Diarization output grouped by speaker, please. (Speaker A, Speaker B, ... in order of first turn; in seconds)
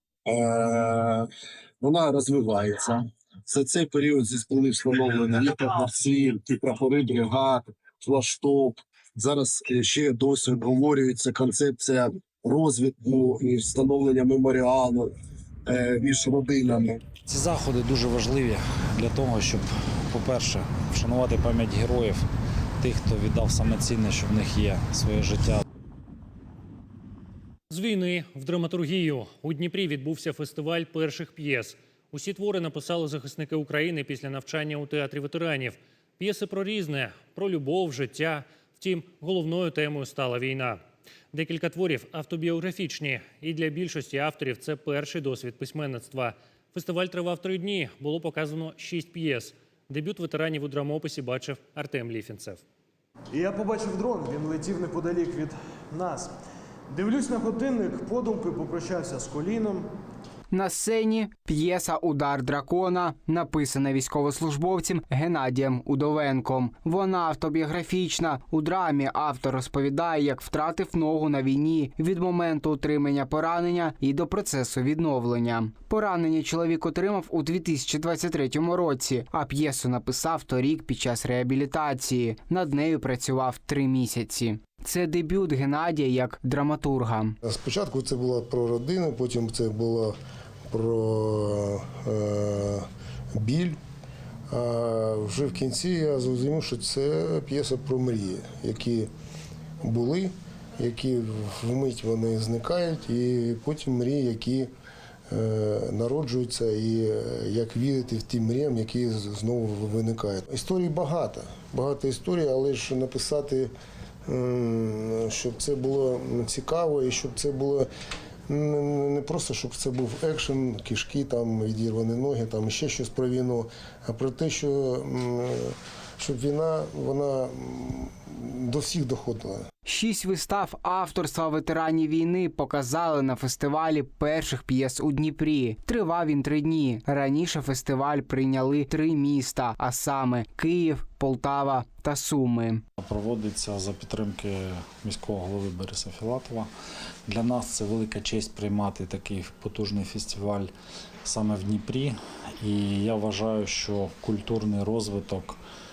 Speaker A: 0.2-1.3, 1.8-15.1, 15.7-17.0
Speaker B: 17.3-22.3, 22.8-25.6, 143.0-146.7, 147.3-150.7, 151.2-155.6
Speaker C: 27.7-52.6
Speaker D: 53.4-56.3, 57.0-59.9
Speaker E: 60.5-87.4, 129.8-142.8
Speaker F: 87.4-90.2, 90.7-93.8, 94.5-99.1, 99.8-104.7, 105.3-113.7, 114.2-117.9, 118.5-129.6